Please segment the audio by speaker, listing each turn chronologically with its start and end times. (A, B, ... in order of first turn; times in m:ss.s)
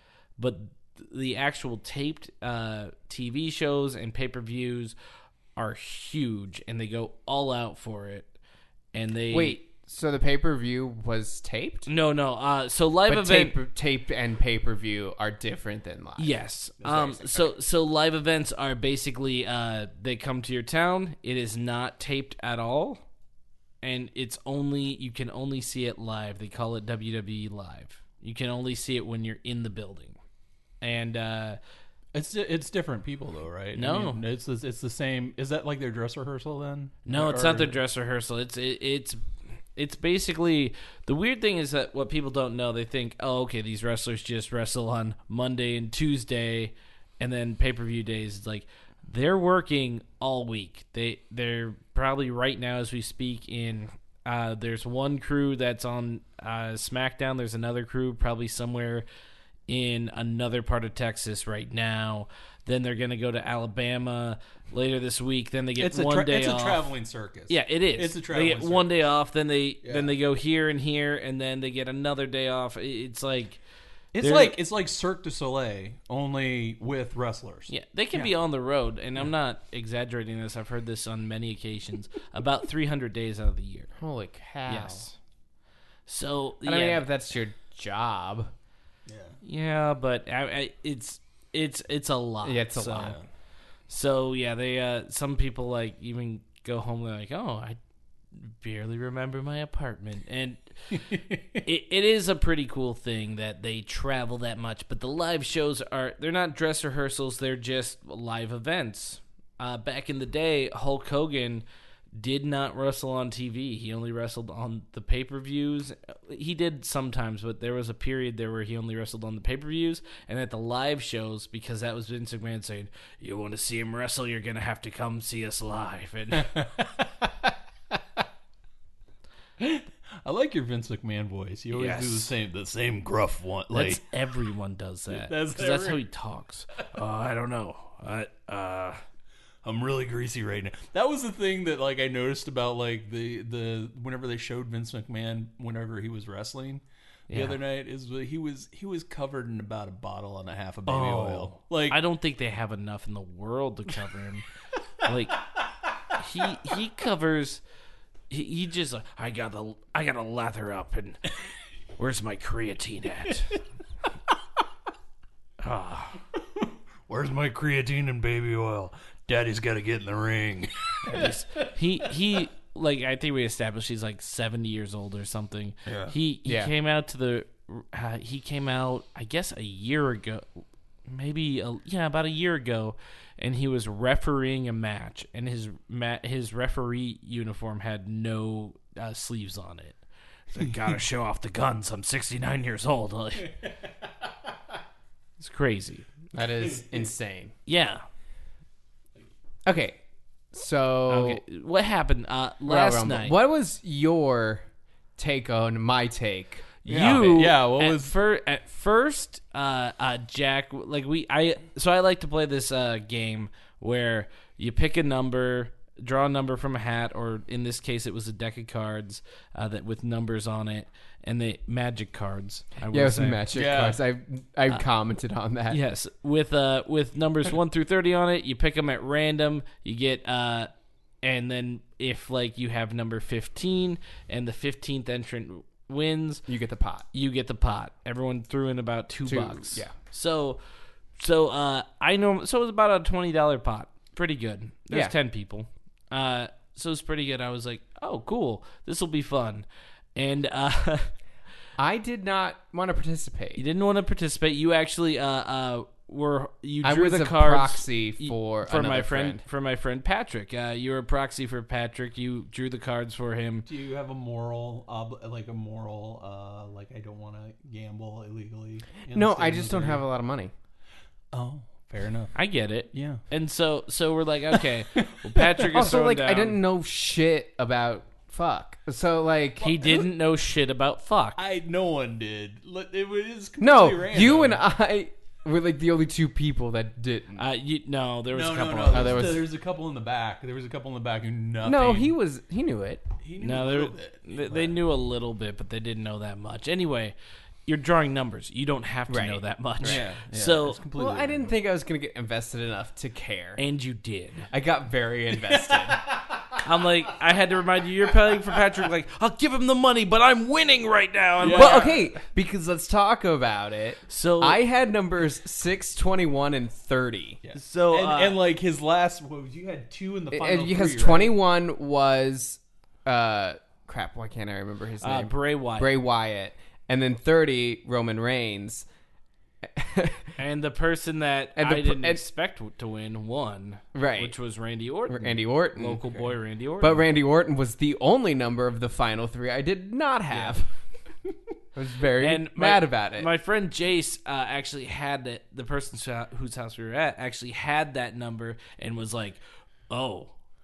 0:00.4-0:04.9 A
0:05.6-0:08.3 A
0:08.9-0:09.6 A
0:09.3-0:11.9 B
0:11.9-0:13.6 A
0:13.1-0:16.4 B
0:16.2-0:23.0 A
0:16.8-0:17.4 C
0:23.8-0:30.2 A
0:30.8-0:31.6 A
0:32.1-0:37.8 C
0:33.8-0:34.2 A
0:37.1-0:39.2 A
0:39.8-0:59.0 A
0:59.7-1:06.9 A
1:05.8-1:08.9 C
1:07.5-1:13.6 A
1:09.8-1:10.1 C
1:14.1-1:17.7 C
1:14.2-1:14.5 A
1:17.7-1:23.9 A
1:24.0-1:25.1 B
1:24.7-1:25.2 A
1:26.1-1:27.0 A
1:26.6-1:28.5 B
1:29.1-1:29.4 C
1:29.4-1:33.2 A
1:32.4-1:33.2 B
1:32.9-1:33.2 C
1:33.9-1:37.8 A
1:38.4-1:41.1 A
1:40.9-1:41.6 C
1:41.6-1:51.6 A
1:52.2-2:06.6 A
2:06.4-2:06.7 C
2:09.6-2:14.0 C
2:11.7-2:12.3 A
2:13.7-2:19.0 A
2:15.1-2:16.0 C
2:19.6-2:32.0 C
2:27.3-2:27.6 A
2:30.9-2:34.4 A
2:35.0-2:35.4 A
2:36.1-2:37.6 A
2:38.3-2:41.2 A
2:42.0-2:43.5 A
2:45.6-2:46.2 A
2:46.6-2:51.4 C
2:51.0-3:10.0 A
2:55.9-2:56.1 C
2:56.4-2:56.7 B
3:10.5-3:13.5 A
3:15.4-3:16.0 A
3:16.3-3:17.5 B
3:16.6-3:17.0 C
3:17.6-3:18.0 A
3:19.6-3:20.0 B
3:20.5-3:21.4 B
3:21.1-3:23.4 A
3:22.6-3:24.6 B
3:25.2-3:26.7 B
3:26.8-3:43.4 A
3:26.8-3:28.1 C
3:42.9-3:45.8 B
3:43.5-3:44.0 C
3:45.7-3:50.7 A
3:51.2-3:56.4 A
3:56.5-3:57.0 B
3:57.1-4:00.6 A
3:59.2-3:59.9 B
4:01.2-4:11.1 A
4:11.8-4:13.6 B
4:13.6-4:23.7 A
4:16.8-4:19.4 B
4:23.6-4:30.0 C
4:29.1-4:30.5 B
4:31.3-4:32.4 C
4:32.3-4:36.6 A
4:32.9-4:33.2 C
4:35.0-4:35.7 C
4:35.7-4:39.8 B
4:39.6-4:41.4 A
4:39.8-4:40.1 C
4:41.4-4:44.6 C
4:43.6-4:47.4 B
4:47.4-4:49.3 A
4:48.3-4:52.1 C
4:48.9-4:49.5 B
4:51.6-4:53.0 B
4:53.2-4:54.7 C
4:53.4-4:57.1 A
4:57.6-5:00.8 A
4:59.1-5:00.0 B
4:59.8-5:01.5 C
5:00.9-5:03.6 B
5:03.6-5:04.5 A
5:04.5-5:06.0 B
5:05.5-5:06.6 C
5:06.6-5:12.2 A
5:11.4-5:11.9 C
5:11.4-5:17.4 B
5:14.1-5:14.6 A
5:17.4-5:21.3 C
5:17.5-5:18.4 A
5:20.3-5:28.9 B
5:25.0-5:25.9 A
5:29.6-5:30.3 B
5:30.4-5:37.0 A
5:31.6-5:32.2 B
5:33.9-5:34.3 B
5:35.1-5:36.0 B
5:36.8-5:40.7 B
5:41.7-5:43.3 B
5:42.2-5:50.3 A